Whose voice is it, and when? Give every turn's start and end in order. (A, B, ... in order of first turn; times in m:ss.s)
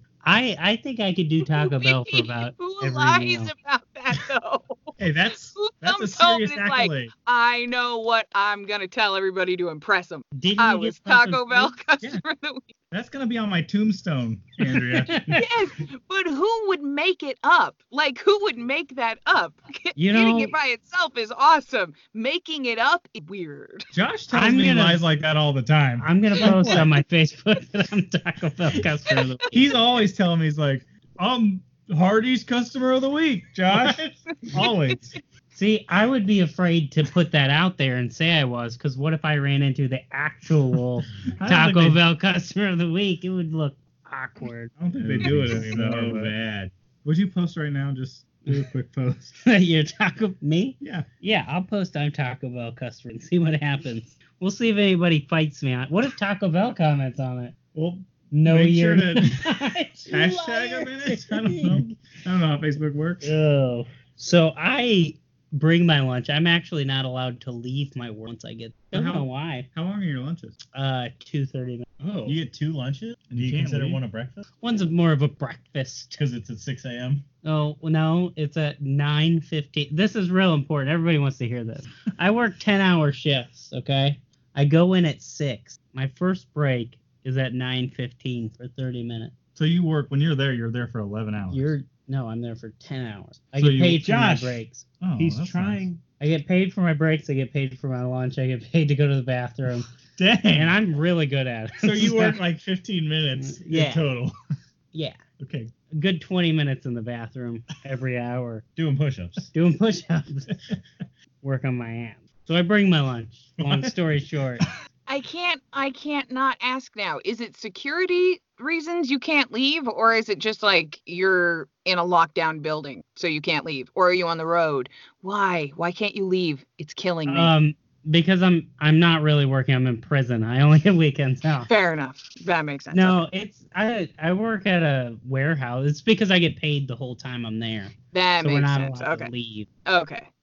0:00.2-0:03.5 A
0:01.5-0:04.9 B
0:05.0-0:07.1 C
0:05.6-0:12.7 B
0:10.4-0:11.7 A
0:12.9-0:15.2 C
0:14.9-0:15.4 A
0:15.3-0:23.8 B
0:20.0-0:20.5 A
0:23.9-0:26.9 C
0:24.3-0:25.0 A
0:26.0-0:29.4 A
0:29.5-0:34.0 C
0:33.7-0:34.2 D
0:34.5-0:35.2 C
0:35.5-0:44.7 A
0:41.4-0:42.0 C
0:44.8-0:46.3 C
0:45.0-0:46.7 D
0:47.0-0:49.4 C
0:49.4-0:57.6 A
0:50.8-0:51.1 C
0:57.7-0:59.4 C
0:58.3-1:01.9 A
1:00.1-1:03.3 C
1:03.2-1:09.7 A
1:08.9-1:10.6 C
1:10.7-1:11.9 A
1:12.0-1:12.4 C
1:12.2-1:14.4 D
1:13.3-1:14.0 C
1:14.6-1:16.2 A
1:16.2-1:17.2 D
1:17.4-1:29.3 A
1:29.6-1:31.7 C
1:31.5-1:34.9 A
1:33.6-1:34.0 C
1:33.9-1:34.6 D
1:35.0-1:35.8 C
1:35.2-1:36.0 D
1:36.2-1:39.9 A
1:40.2-1:40.8 C
1:40.5-1:42.4 A
1:41.8-1:42.3 D
1:41.9-1:44.4 C
1:43.4-1:44.0 A
1:44.9-1:45.2 A
1:45.4-1:45.7 C
1:45.9-1:48.6 A
1:48.8-1:49.5 D
1:49.5-1:50.6 A
1:51.4-1:54.6 A
1:53.6-1:53.9 D
1:55.1-2:07.5 B
2:07.3-2:11.7 A
2:11.7-2:13.2 B
2:12.9-2:19.7 A
2:18.1-2:19.3 B
2:19.9-2:20.3 B